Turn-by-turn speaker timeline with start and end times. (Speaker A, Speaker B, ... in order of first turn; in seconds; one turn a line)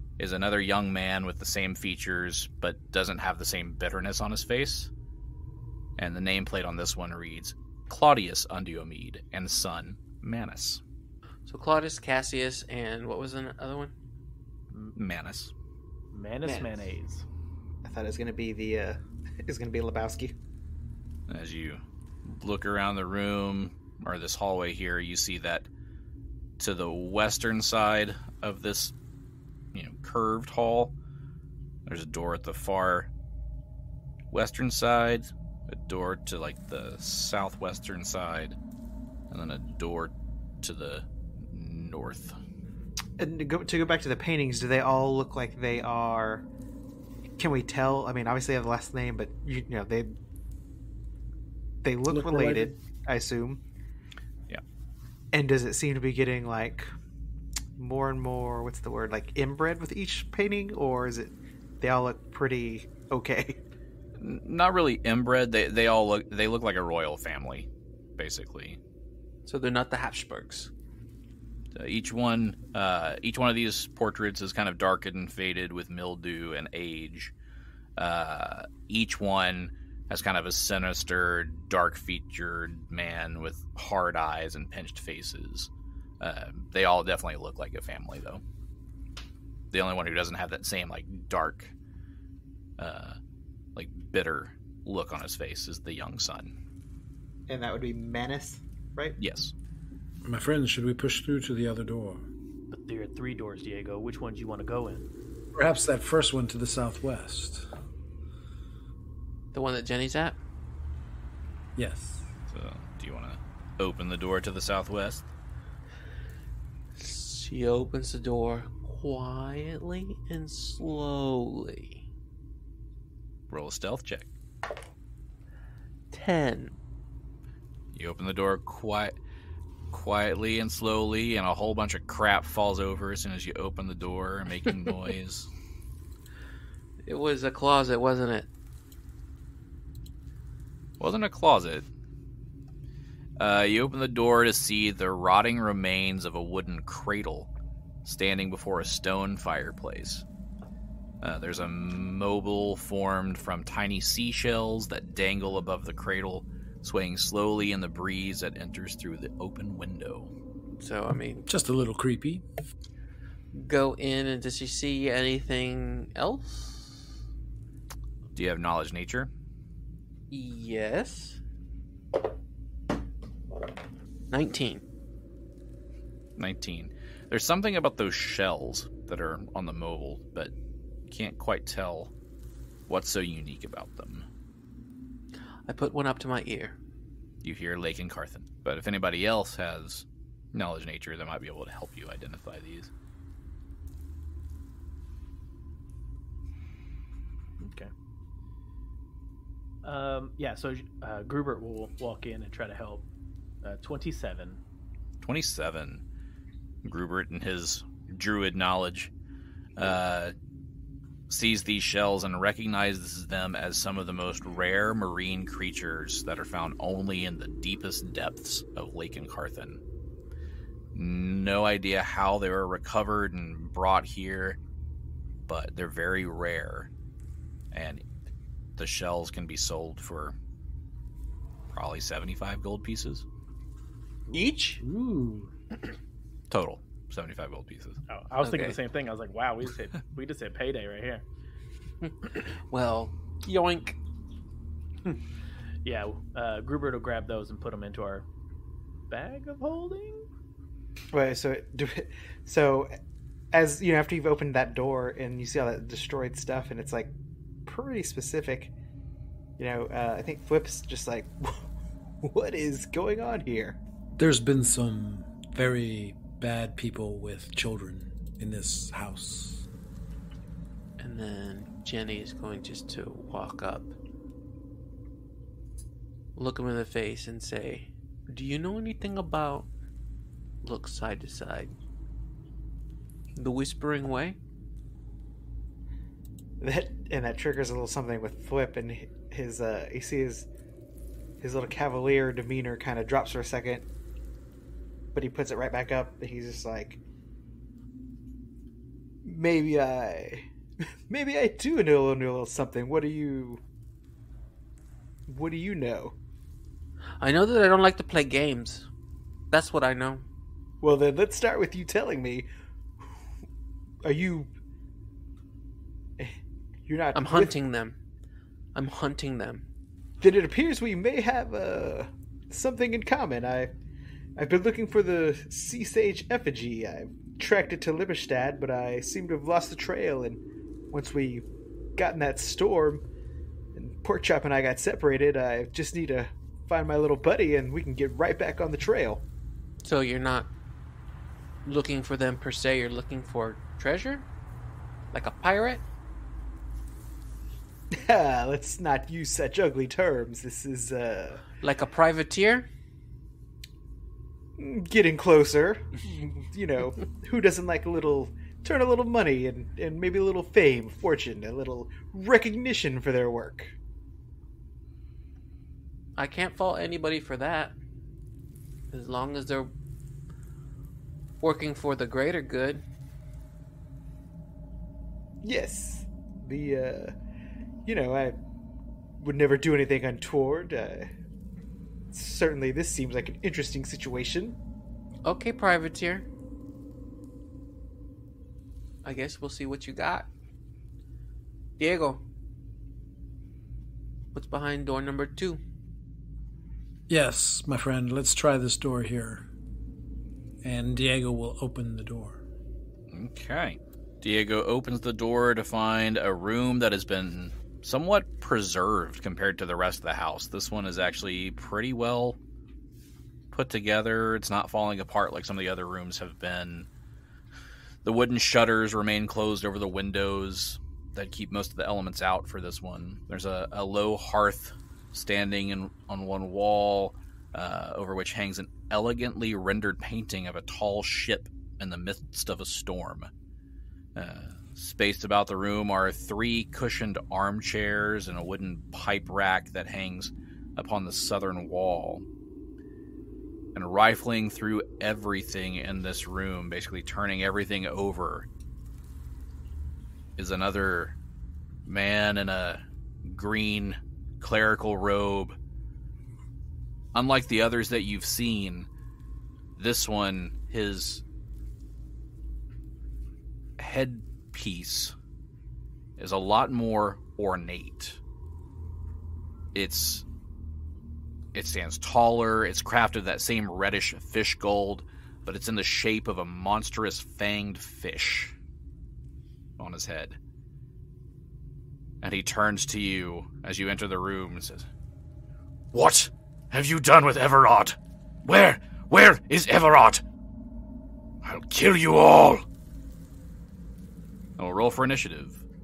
Speaker A: 0.2-4.9
Speaker A: 6.0-10.8
Speaker B: 11.5-13.9
Speaker A: 14.9-15.5
Speaker C: 16.1-17.2
Speaker D: 16.4-16.7
Speaker D: 17.8-20.4
Speaker A: 21.3-25.7
Speaker A: 26.6-28.9
Speaker A: 29.7-30.9
Speaker A: 31.9-33.1
Speaker A: 34.3-38.6
Speaker A: 39.3-42.4
Speaker D: 43.2-46.5
Speaker D: 47.4-50.2
Speaker D: 51.8-53.6
Speaker E: 52.1-52.8
Speaker D: 55.3-56.9
Speaker D: 57.8-63.6
Speaker A: 64.2-68.8
Speaker B: 69.5-70.7
Speaker A: 71.8-77.3
Speaker A: 78.0-88.4
Speaker A: 89.7-91.7
Speaker A: 92.8-93.2
Speaker A: 93.8-96.5
Speaker D: 97.5-99.2
Speaker A: 99.2-99.5
Speaker E: 100.2-102.2
Speaker C: 102.7-105.1
Speaker E: 105.5-107.7
Speaker B: 109.5-110.4
Speaker E: 111.8-112.3
Speaker A: 112.5-115.3
Speaker B: 117.0-122.0
Speaker A: 123.5-124.3
Speaker B: 126.1-126.8
Speaker A: 127.9-129.2
Speaker A: 129.9-135.5
Speaker B: 137.1-138.5
Speaker A: 141.0-141.9
Speaker A: 143.4-147.5
Speaker A: 148.1-150.2
Speaker A: 151.2-160.3
Speaker B: 160.8-161.5
Speaker E: 161.5-162.4
Speaker B: 163.5-167.1
Speaker A: 168.4-169.3
Speaker B: 170.3-171.4
Speaker B: 174.3-174.8
Speaker A: 176.4-180.5
Speaker A: 181.1-182.1
Speaker A: 182.9-184.3
Speaker B: 185.7-186.8
Speaker A: 187.4-192.9
Speaker C: 197.6-197.9
Speaker C: 199.8-203.1
Speaker C: 203.6-204.6
Speaker A: 205.2-206.0
Speaker A: 206.8-209.1
Speaker A: 209.8-210.3
Speaker A: 211.3-219.8
Speaker A: 220.9-224.6
Speaker A: 225.5-226.9
Speaker A: 227.7-228.0
Speaker A: 228.8-230.3
Speaker A: 231.7-233.2
Speaker B: 234.3-234.8
Speaker E: 234.8-235.5
Speaker A: 236.5-238.0
Speaker C: 238.1-241.2
Speaker B: 238.4-238.8
Speaker B: 242.0-244.0
Speaker C: 245.8-248.3
Speaker C: 249.1-250.3
Speaker D: 251.1-252.9
Speaker D: 253.5-257.1
Speaker D: 257.7-258.7
Speaker D: 259.6-261.7
Speaker D: 262.2-263.8
Speaker E: 264.2-269.6
Speaker B: 271.0-273.9
Speaker B: 276.4-279.7
Speaker B: 280.6-281.8
Speaker B: 283.4-284.4
Speaker D: 286.6-290.5
Speaker D: 291.4-293.8
Speaker D: 295.1-297.0
Speaker D: 299.2-300.5
Speaker D: 301.1-303.6
Speaker D: 305.3-306.2
Speaker B: 307.2-308.9
Speaker B: 309.5-310.2
Speaker D: 310.8-312.5
Speaker D: 314.0-314.5
Speaker D: 316.9-317.5
Speaker B: 317.1-318.0
Speaker B: 318.8-319.6
Speaker D: 320.2-323.7
Speaker D: 324.4-330.4
Speaker D: 330.9-331.5
Speaker D: 332.0-333.0
Speaker D: 333.8-339.2
Speaker B: 339.8-340.5
Speaker B: 341.6-344.3
Speaker B: 345.1-345.8
Speaker D: 347.9-351.4
Speaker B: 351.6-352.7
Speaker D: 354.6-363.8
Speaker B: 366.2-367.8
Speaker B: 368.9-369.7
Speaker B: 371.4-372.8
Speaker D: 375.4-377.1
Speaker D: 377.9-378.4
Speaker D: 379.2-381.1
Speaker D: 382.1-384.6
Speaker B: 385.2-386.3
Speaker B: 389.0-390.3
Speaker B: 391.8-392.2
Speaker B: 394.3-395.6
Speaker E: 397.1-399.4
Speaker E: 400.6-402.4
Speaker A: 403.1-412.4
Speaker A: 413.5-416.9
Speaker A: 418.0-433.3
Speaker A: 434.1-442.3
Speaker A: 443.8-448.5
Speaker A: 450.4-451.2
Speaker A: 451.9-455.6
Speaker A: 457.1-458.9
Speaker A: 459.8-461.2
Speaker A: 463.8-465.1
Speaker A: 466.2-468.2
Speaker A: 469.7-470.2
Speaker A: 471.5-478.6
Speaker A: 479.8-480.4
Speaker A: 482.2-484.9
Speaker A: 485.9-490.2
Speaker A: 491.4-492.6
Speaker A: 494.6-495.6